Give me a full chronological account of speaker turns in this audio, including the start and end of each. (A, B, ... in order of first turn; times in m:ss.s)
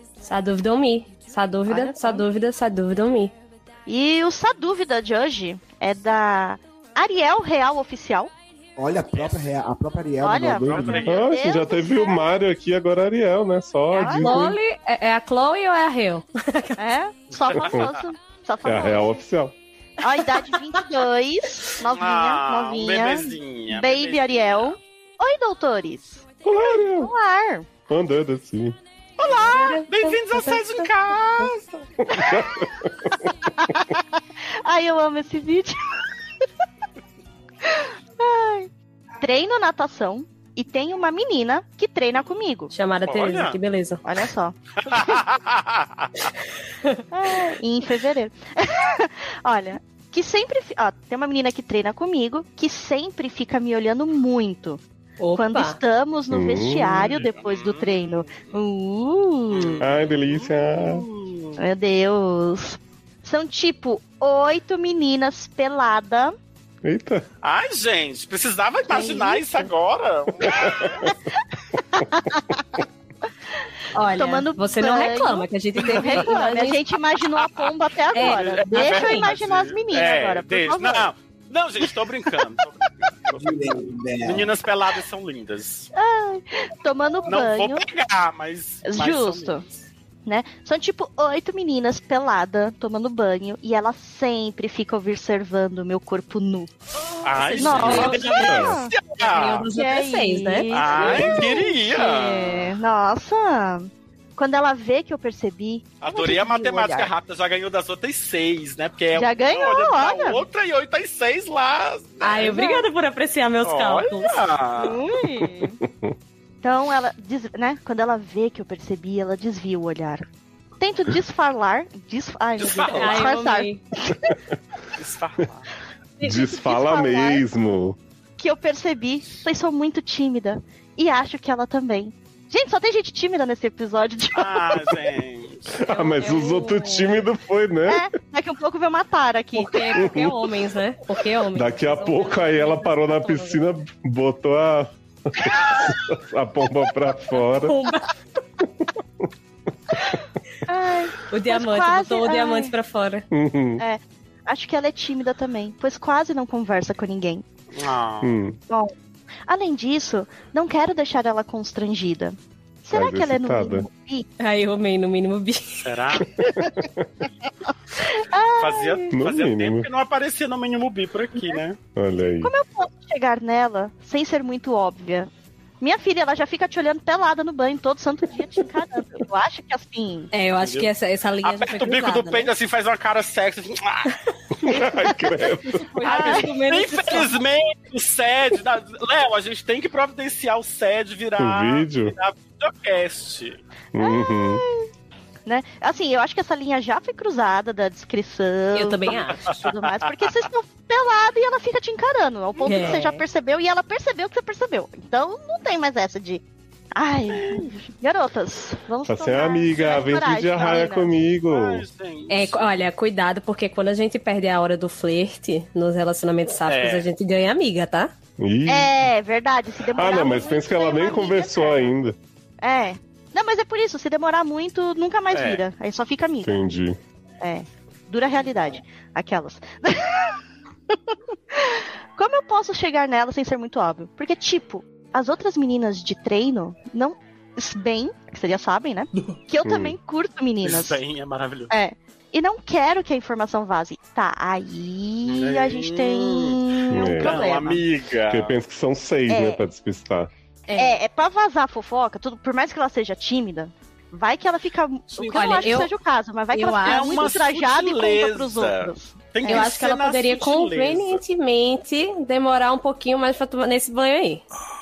0:00.2-0:03.3 A
0:01.7-0:02.2 B
0:03.9-0:08.3 B
0:08.8-0:11.0 C
0:09.1-0:09.4 D
0:10.2-0:12.2 B
0:10.6-0:11.3 D
0:10.8-0:14.6 E
0:13.9-0:14.4 B
0:14.0-0:16.8 A
0:16.8-0:19.2 B
0:17.4-0:18.0 D
0:17.6-0:17.9 E
0:18.6-0:19.5 E
0:20.0-0:27.7 B
0:21.9-0:24.8 D
0:26.4-0:27.1 E
0:27.9-0:28.8 E
0:29.2-0:31.6 D
0:29.4-0:30.9 A
0:32.0-0:33.2 E
0:32.1-0:32.7 B
0:33.5-0:34.0 B
0:34.6-0:36.4 B
0:37.6-0:42.7 B
0:42.7-0:44.0 A
0:43.0-0:43.6 D
0:44.0-0:45.2 B
0:44.8-0:46.2 D
0:47.1-0:54.8 B
0:55.2-0:55.8 A
0:55.4-0:59.8 B
0:56.3-0:57.2 E
0:57.0-0:58.5 D
0:59.5-1:01.6 D
0:59.8-1:01.0 E
1:01.6-1:06.3 B
1:06.8-1:07.2 E
1:07.4-1:11.1 D
1:08.9-1:09.7 B
1:10.4-1:11.1 E
1:11.1-1:12.8 B
1:13.9-1:16.9 A
1:14.1-1:21.1 B
1:17.4-1:23.6 D
1:18.1-1:19.3 A
1:23.3-1:24.5 C
1:24.2-1:25.9 D
1:25.9-1:27.8 B
1:27.2-1:29.6 D
1:28.8-1:29.6 B
1:30.2-1:36.7 B
1:37.2-1:39.7 D
1:37.5-1:38.9 B
1:37.6-1:38.6 A
1:38.3-1:38.7 E
1:39.2-1:41.4 A
1:39.7-1:47.1 B
1:40.7-1:42.7 D
1:46.0-1:52.6 D
1:49.1-1:50.4 B
1:52.2-1:54.4 A
1:52.4-1:52.9 B
1:53.6-1:55.0 D
1:54.8-1:55.8 B
1:55.4-1:56.1 E
1:56.6-2:00.2 B
2:00.8-2:04.3 B
2:02.6-2:03.3 D
2:02.9-2:03.8 A
2:05.0-2:05.7 D
2:06.2-2:07.5 B
2:06.2-2:08.0 E
2:08.4-2:14.9 B
2:14.3-2:15.8 D
2:15.8-2:18.0 E
2:15.9-2:17.1 A
2:17.9-2:20.1 B
2:19.5-2:23.6 A
2:19.9-2:20.4 E
2:21.5-2:27.8 E
2:27.6-2:28.1 A
2:30.0-2:32.7 B
2:31.3-2:33.2 A
2:33.3-2:33.8 E
2:33.8-2:37.4 B
2:37.7-2:38.4 D
2:38.2-2:38.6 E
2:39.5-2:44.3 B
2:42.9-2:43.9 E
2:44.4-2:45.9 A
2:45.8-2:46.3 D
2:46.6-2:47.0 E
2:48.0-2:49.1 B
2:48.6-2:51.8 D
2:49.1-2:49.9 E
2:52.0-2:52.5 E
2:52.4-2:55.3 B
2:55.8-3:00.3 B
3:00.3-3:02.5 A
3:00.6-3:00.9 D
3:01.4-3:04.1 D
3:04.6-3:05.9 E
3:05.6-3:07.3 A
3:06.0-3:13.6 D
3:06.0-3:06.5 B
3:11.4-3:12.1 E
3:13.9-3:14.6 E
3:14.0-3:14.9 B
3:15.4-3:26.4 B
3:18.7-3:19.5 A
3:22.6-3:23.0 D
3:22.6-3:23.2 A
3:27.0-3:31.1 B
3:27.3-3:27.7 D
3:29.1-3:31.8 E
3:31.5-3:32.6 D
3:32.3-3:38.1 A
3:36.6-3:37.1 D
3:38.4-3:38.9 E
3:38.6-3:41.9 B
3:39.9-3:42.2 E
3:42.6-3:46.6 B
3:45.3-3:45.6 D
3:46.4-3:47.0 E
3:47.4-4:01.0 B
3:59.6-4:00.0 E
4:00.6-4:01.7 D
4:01.7-4:07.8 B
4:05.2-4:06.6 D
4:06.9-4:07.4 E
4:07.1-4:08.6 D
4:08.3-4:10.3 E
4:09.3-4:09.6 B
4:10.7-4:11.0 A
4:10.7-4:19.7 B
4:15.1-4:15.7 D
4:15.2-4:15.9 A
4:16.5-4:17.3 A
4:16.8-4:21.2 D
4:19.4-4:24.4 A